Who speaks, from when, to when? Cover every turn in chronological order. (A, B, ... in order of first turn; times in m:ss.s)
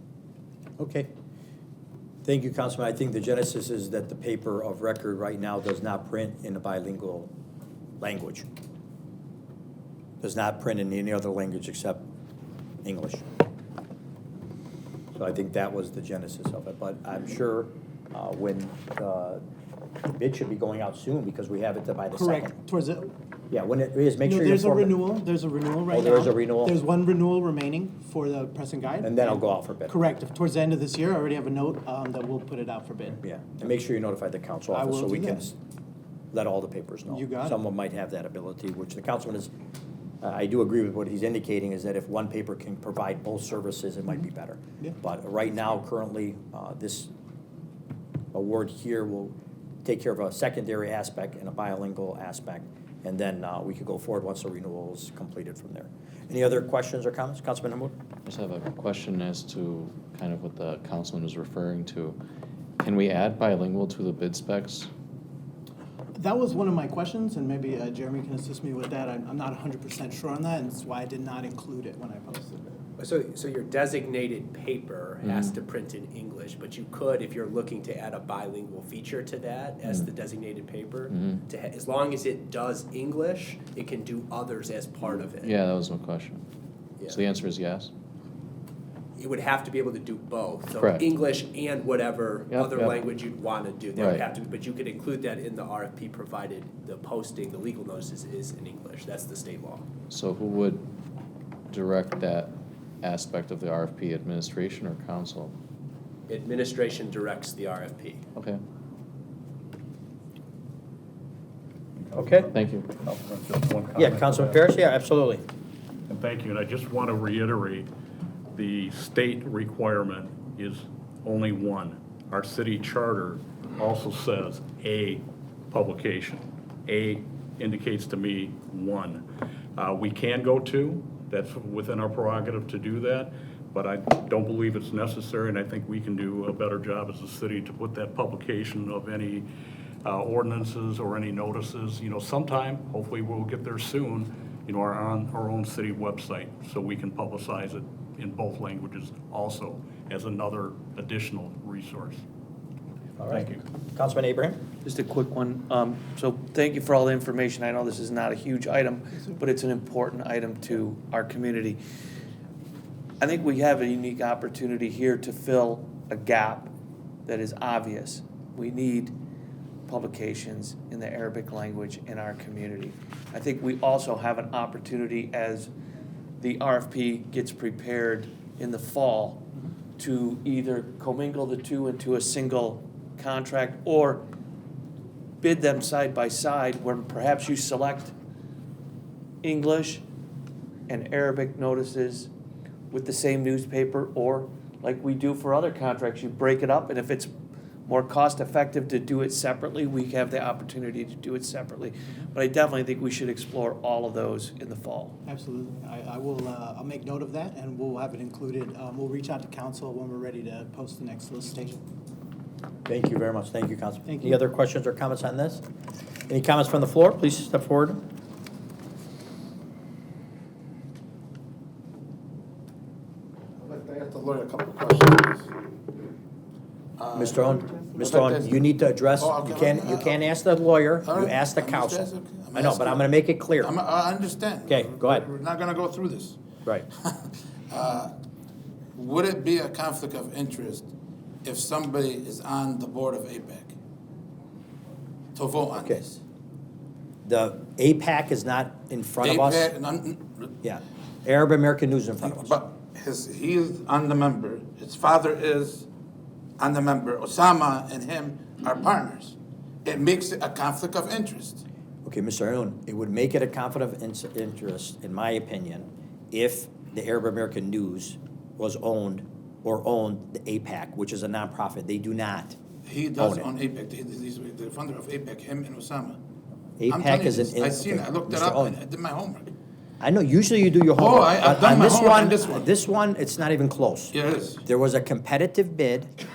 0:00.8-0:01.1 A
0:02.2-0:07.3 A
0:08.0-0:08.4 A
0:10.2-0:12.0 A
0:12.8-0:13.2 A
0:15.1-0:19.4 A
0:20.1-0:22.5 A
0:22.1-0:23.1 B
0:23.5-0:25.0 A
0:24.2-0:33.2 B
0:25.9-0:26.7 A
0:29.0-0:30.0 A
0:33.2-0:35.5 A
0:34.7-0:35.5 B
0:36.3-0:39.5 A
0:37.1-0:37.6 B
0:40.2-0:47.1 A
0:48.3-0:49.3 A
0:49.8-0:57.9 A
0:58.2-1:02.2 C
1:02.8-1:04.9 C
1:06.1-1:12.8 B
1:13.0-1:25.6 D
1:15.2-1:15.6 C
1:21.1-1:21.4 C
1:25.3-1:26.4 C
1:27.1-1:27.9 C
1:29.2-1:39.9 D
1:30.8-1:31.1 C
1:32.5-1:33.0 C
1:34.0-1:34.3 C
1:40.1-1:40.9 C
1:41.7-1:45.6 C
1:46.3-1:48.2 D
1:52.0-1:54.6 E
1:52.1-1:52.5 A
1:52.5-1:52.9 C
1:54.0-1:55.4 A
1:56.1-1:57.9 E
1:58.6-2:09.2 E
2:09.8-2:19.5 E
2:20.0-2:32.2 E
2:33.2-2:34.6 A
2:33.3-2:33.6 E
2:34.8-2:41.8 F
2:43.2-2:46.7 F
2:47.2-2:49.2 F
2:49.9-2:55.7 F
2:56.4-3:04.2 F
3:05.4-3:08.1 F
3:09.4-3:10.0 F
3:10.9-3:12.3 F
3:12.9-3:17.3 F
3:17.8-3:25.2 F
3:25.2-3:31.8 B
3:32.9-3:35.6 A
3:34.1-3:34.4 B
3:36.3-3:38.0 A
3:43.6-3:45.5 G
3:47.0-3:48.6 G
3:47.2-3:53.7 A
3:49.2-3:50.2 G
3:51.0-3:53.0 G
3:53.6-3:56.4 G
3:54.7-3:55.2 A
3:57.7-3:58.1 G
3:59.0-4:00.9 G
4:01.4-4:03.8 G
4:05.3-4:06.2 G
4:07.2-4:09.7 A
4:09.2-4:10.5 G
4:10.6-4:12.5 A
4:12.2-4:15.9 G
4:16.6-4:21.6 G
4:22.0-4:32.6 A
4:32.9-4:36.2 G
4:33.2-4:33.5 A
4:36.8-4:38.8 A
4:36.9-4:39.5 G
4:40.0-4:46.1 A
4:41.0-4:42.7 G
4:44.1-4:44.6 G